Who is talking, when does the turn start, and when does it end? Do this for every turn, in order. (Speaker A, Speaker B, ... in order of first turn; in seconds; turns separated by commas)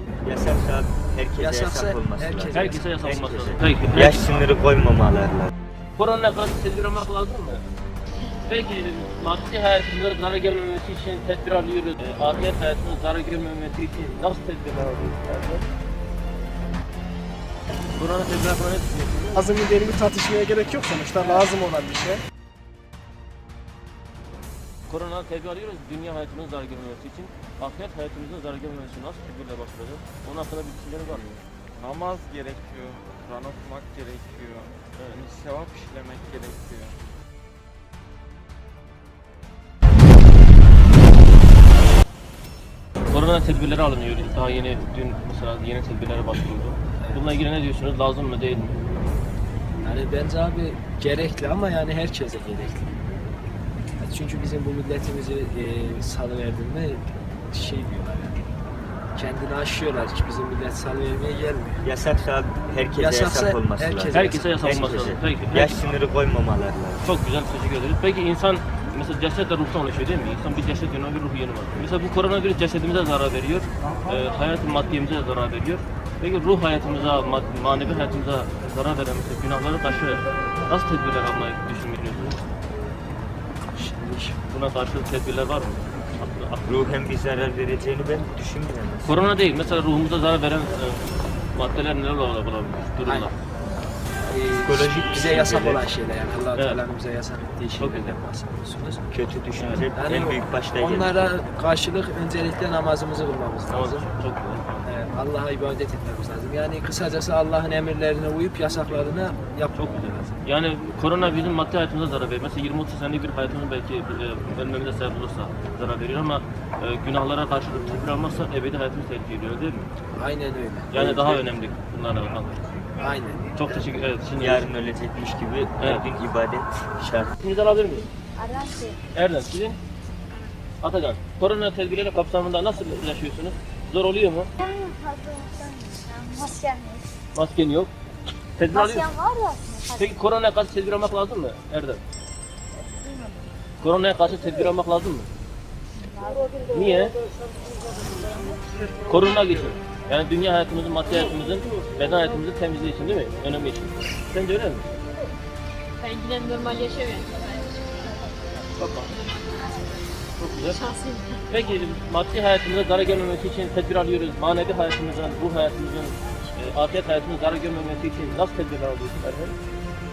Speaker A: 0.2-5.5, Speaker B: 1.4-3.1, Speaker C: 2.5-4.4, Speaker C: 6.0-7.6, Speaker C: 8.5-15.7, Speaker C: 18.0-19.3, Speaker D: 19.3-22.2, Speaker C: 24.9-31.2, Speaker E: 31.1-37.0, Speaker C: 43.1-48.7, Speaker B: 49.8-52.9, Speaker B: 54.0-58.4, Speaker B: 59.2-61.9, Speaker A: 61.8-67.0, Speaker B: 62.9-64.6, Speaker C: 64.1-65.9, Speaker C: 67.0-82.5, Speaker B: 83.7-84.4, Speaker C: 84.5-86.7, Speaker A: 86.6-89.1, Speaker C: 89.0-93.3, Speaker B: 93.0-93.3, Speaker B: 94.3-99.1, Speaker A: 94.6-95.9, Speaker C: 97.8-98.1, Speaker A: 99.1-101.4, Speaker C: 99.6-99.8, Speaker B: 99.9-104.1, Speaker C: 103.7-104.9, Speaker B: 104.8-110.4, Speaker C: 109.8-119.9, Speaker B: 120.1-121.4, Speaker C: 120.9-122.6, Speaker B: 123.0-123.4, Speaker C: 123.6-124.7, Speaker A: 124.4-127.3, Speaker C: 125.8-126.1, Speaker C: 127.4-128.1, Speaker F: 128.4-129.0, Speaker C: 129.2-129.8, Speaker C: 130.8-134.5, Speaker F: 134.6-137.1, Speaker C: 137.3-137.9, Speaker C: 138.6-139.1, Speaker F: 138.7-140.2, Speaker C: 140.0-142.0, Speaker F: 142.8-143.4, Speaker C: 143.8-145.3, Speaker F: 145.9-146.6, Speaker C: 146.7-147.2, Speaker F: 148.1-148.6, Speaker C: 149.1-155.0, Speaker G: 156.0-158.3, Speaker C: 158.8-159.2, Speaker C: 160.4-160.8, Speaker G: 160.7-161.4, Speaker C: 161.5-169.6